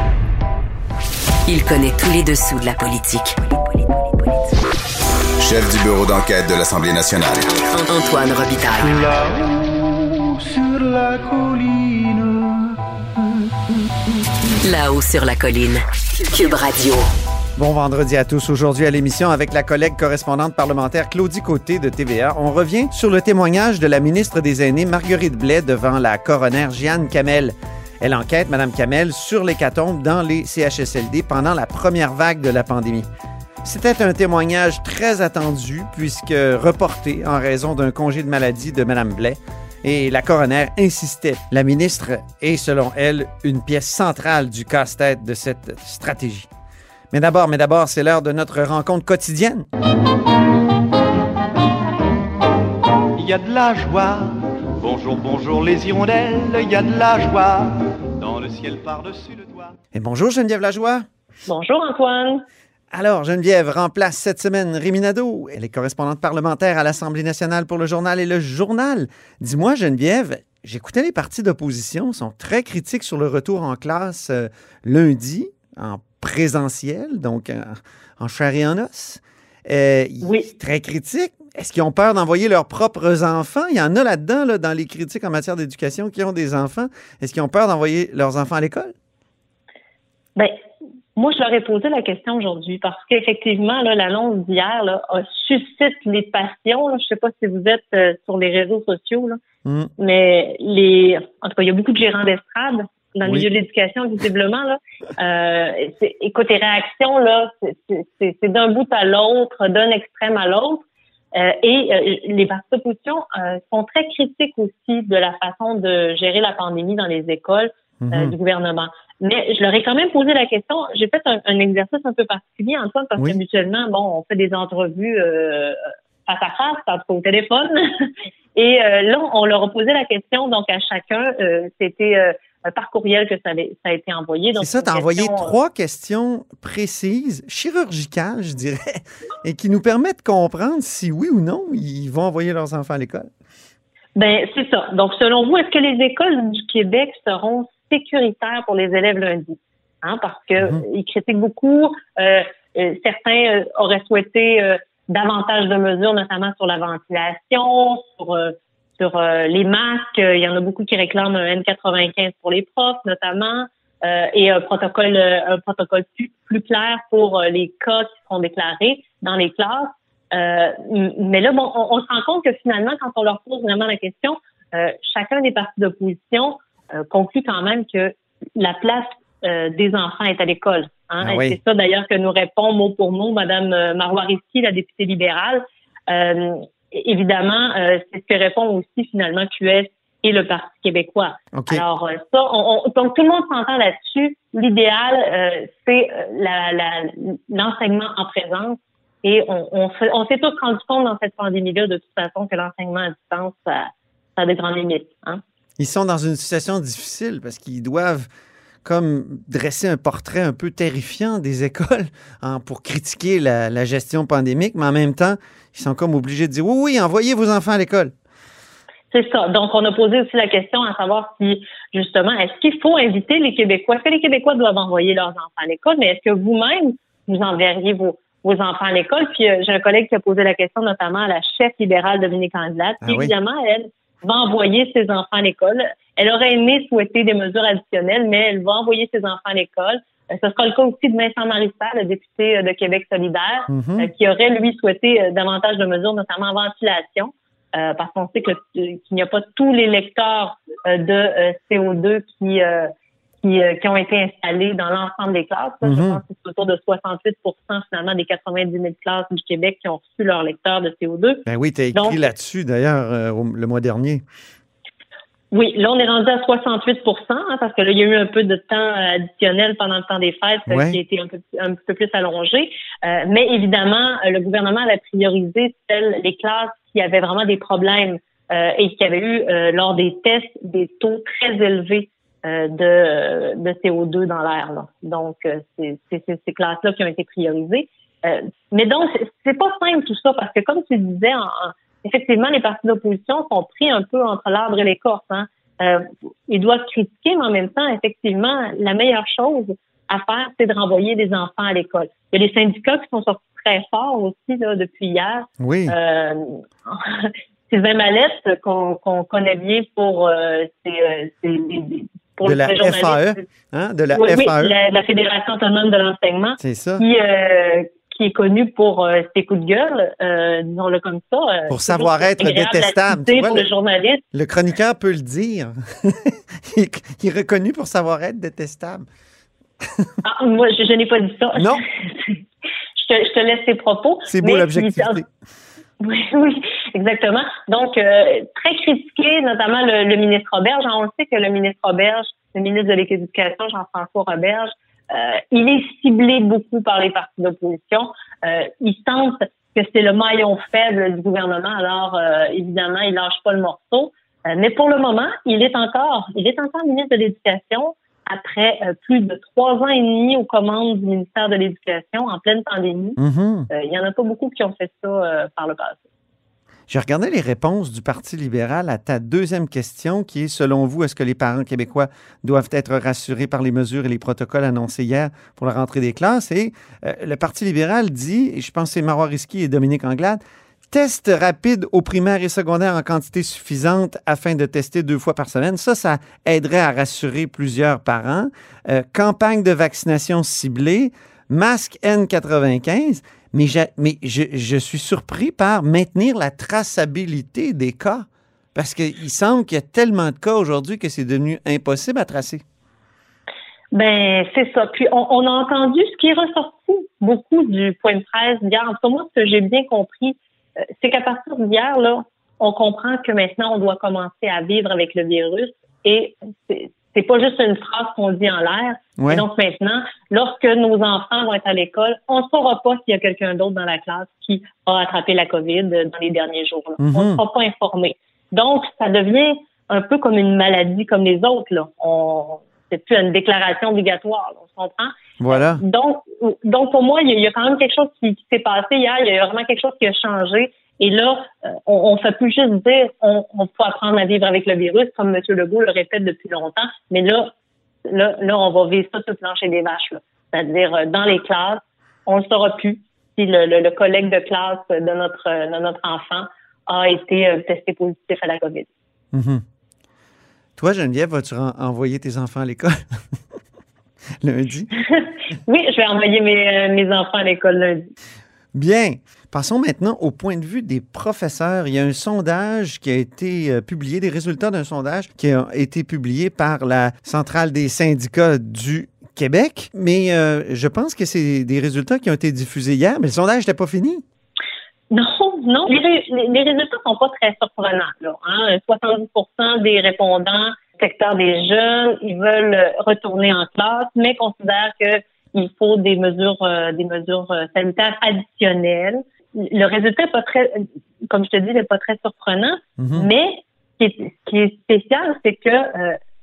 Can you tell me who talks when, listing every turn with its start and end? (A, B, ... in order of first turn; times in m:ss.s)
0:01.4-0:04.4 A
0:05.4-0:07.5 B
0:07.5-0:09.1 A
0:08.8-0:12.8 C
0:14.6-0:17.0 A
0:17.6-0:33.1 D
0:33.6-0:46.5 D
0:47.1-0:49.7 D
0:53.2-0:59.7 C
0:59.9-1:01.0 D
1:01.5-1:02.4 E
1:02.9-1:28.9 D
1:20.2-1:20.5 E
1:30.4-1:30.6 E
1:31.2-1:39.4 E
1:39.6-1:39.9 D
1:40.0-2:15.5 E
1:58.0-1:58.3 D
2:14.6-2:23.3 D
2:24.2-3:25.4 E
3:01.2-3:01.6 D
3:11.5-3:11.8 D
3:25.8-3:28.3 D
3:28.8-3:38.1 D
3:39.1-4:12.9 E
3:53.0-3:53.3 D
4:03.7-4:04.1 D
4:13.4-4:22.2 E
4:15.8-4:16.2 D
4:21.5-4:24.2 D
4:25.5-5:13.4 E
4:30.7-4:31.0 D
5:05.6-5:05.9 D
5:12.4-5:14.7 D
5:14.1-5:24.2 E
5:16.6-5:17.0 D
5:21.7-5:23.7 D
5:24.3-5:29.0 D
5:30.2-5:32.4 E
5:31.6-5:31.8 D
5:33.0-5:35.2 E
5:34.3-5:35.2 D
5:36.0-6:03.2 E
6:03.2-6:03.7 D
6:03.7-6:06.0 E
6:06.9-6:20.4 D
6:20.9-6:42.6 D
6:43.9-7:27.5 E
6:59.2-6:59.4 D
7:07.0-7:07.4 D
7:15.4-7:15.8 D
7:28.1-7:38.9 E
7:39.3-7:39.6 D
7:40.8-7:43.2 D
7:44.4-7:44.9 D
7:45.0-7:48.1 E
7:48.7-8:04.2 D
8:05.1-8:26.2 E
8:23.0-8:23.3 D